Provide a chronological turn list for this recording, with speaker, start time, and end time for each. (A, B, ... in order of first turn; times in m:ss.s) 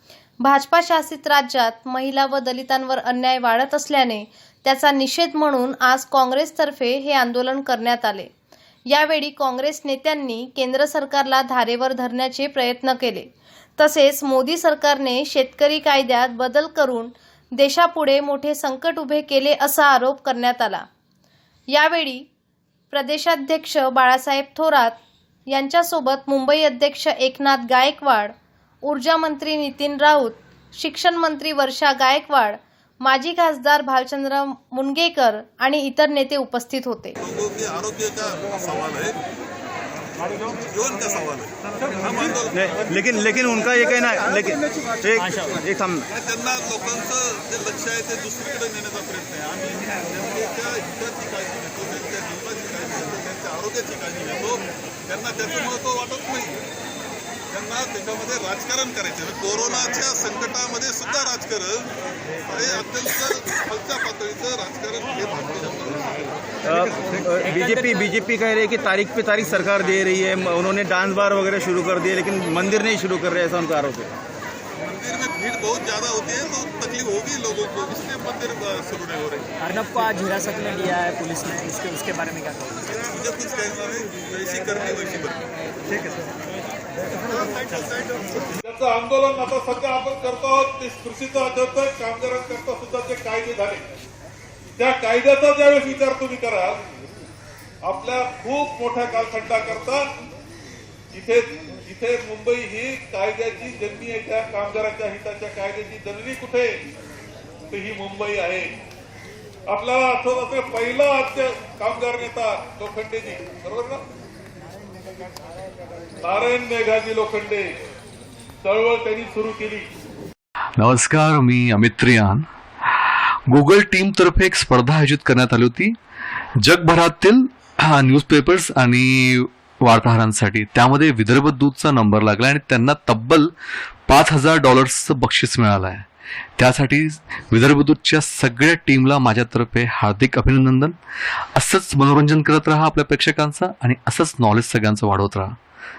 0:00.4-0:08.3 A
0:08.9-0:20.8 A
0:21.7-0:22.2 A
0:22.9-0:25.0 A
0:25.5-0:28.3 A
0:28.8-0:37.2 A
0:37.2-0:39.2 B
0:40.5-0:42.5 B
0:42.5-0:46.1 C
0:46.1-0:56.6 B
0:57.5-1:01.9 B
1:02.4-1:06.1 B
1:06.6-1:14.1 C
1:07.5-1:07.8 D
1:14.8-1:19.5 B
1:19.6-1:22.8 D
1:23.0-1:25.4 B
1:28.6-1:33.8 B
1:34.8-1:36.8 B
1:37.9-1:40.1 B
1:41.1-1:46.7 B
1:47.7-1:48.7 B
1:49.7-1:54.0 B
1:56.2-1:57.7 B
1:58.6-1:59.9 B
2:00.8-2:02.4 E
2:03.0-2:06.0 E
2:06.6-2:13.5 E
2:14.1-2:16.1 E
2:16.6-2:21.0 E
2:21.6-2:25.6 E